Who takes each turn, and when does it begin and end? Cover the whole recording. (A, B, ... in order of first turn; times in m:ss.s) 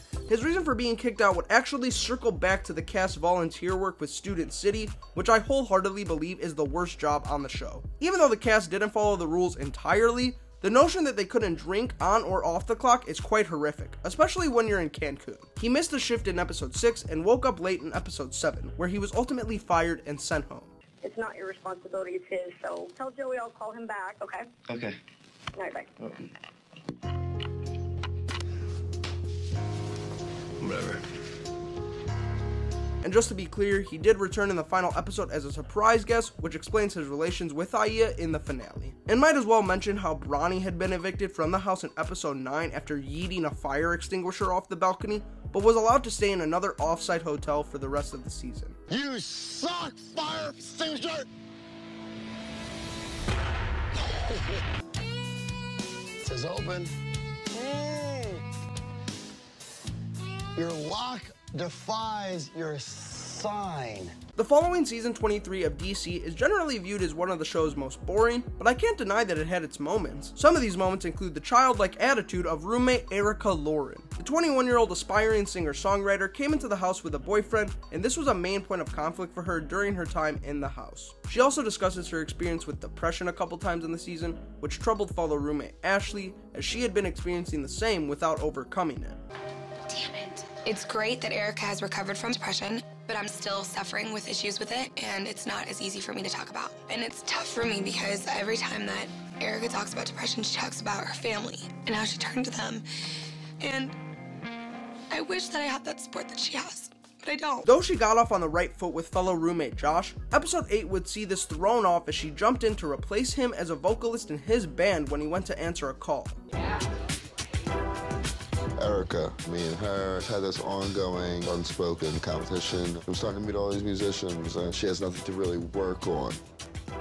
0:00.3-0:20.7 A
0:21.0-0:24.4 B
0:25.6-0:25.9 B
0:33.0-0:48.8 A
0:48.9-0:51.2 C
0:56.2-0:56.9 C
0:57.5-0:58.4 C
1:00.5-1:04.1 C
1:04.4-1:29.2 A
1:29.9-1:42.8 D
1:43.6-1:44.0 D
1:45.1-1:47.7 D
1:47.6-1:56.4 A
1:58.8-2:06.4 E